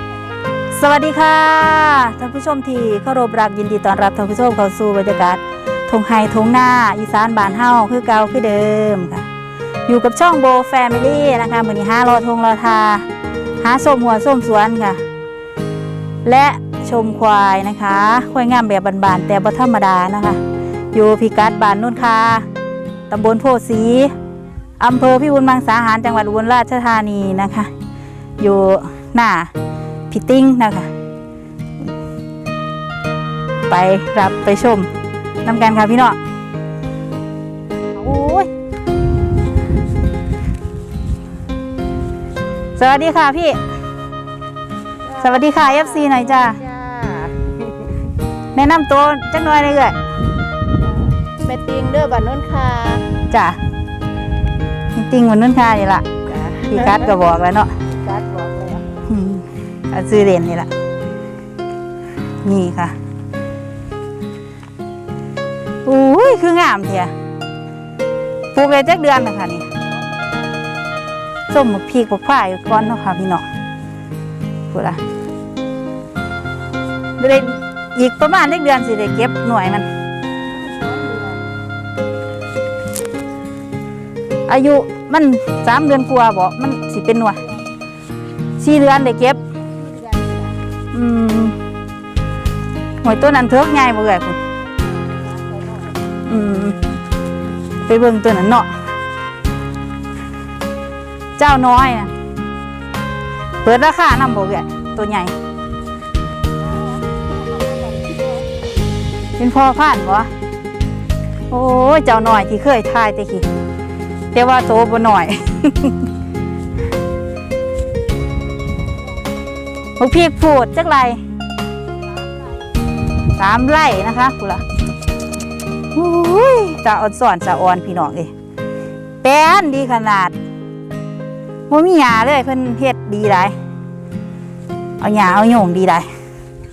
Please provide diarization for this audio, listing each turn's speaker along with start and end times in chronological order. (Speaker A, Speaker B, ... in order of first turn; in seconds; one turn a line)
Speaker A: 0.7-9.2
Speaker A: 9.9-13.1
Speaker A: 13.6-15.0
Speaker A: 16.2-20.4
Speaker A: 20.9-22.4
Speaker A: 23.1-24.1
Speaker A: 24.8-27.7
Speaker A: 28.4-29.5
Speaker A: 30.1-30.9
Speaker A: 33.7-34.9
Speaker A: 35.5-36.2
Speaker A: 37.9-38.5
Speaker A: 42.8-43.6
Speaker B: 45.1-47.9
Speaker A: 45.2-46.6
Speaker A: 48.5-50.0
Speaker B: 50.8-53.1
Speaker A: 53.3-53.6
Speaker A: 54.9-56.1
Speaker B: 56.3-59.0
Speaker A: 56.7-57.7
Speaker A: 59.1-60.7
Speaker A: 62.4-63.0
Speaker A: 65.8-67.1
Speaker A: 68.5-69.7
Speaker A: 71.5-73.5
Speaker A: 74.7-75.0
Speaker A: 77.2-79.9
Speaker B: 80.5-81.6
Speaker A: 84.5-87.4
Speaker A: 88.6-89.4
Speaker B: 89.6-90.6
Speaker A: 90.9-91.6
Speaker A: 93.0-94.4
Speaker B: 94.7-96.0
Speaker A: 96.3-96.8
Speaker A: 97.9-98.7
Speaker A: 101.4-102.1
Speaker A: 103.6-105.3
Speaker B: 106.6-108.7
Speaker A: 109.4-110.3
Speaker A: 111.5-113.5
Speaker A: 114.3-116.0
Speaker A: 120.0-121.2
Speaker B: 122.1-122.7
Speaker A: 123.4-124.6
Speaker A: 125.9-128.3
Speaker A: 129.2-130.3
Speaker A: 131.7-133.6
Speaker A: 135.0-136.1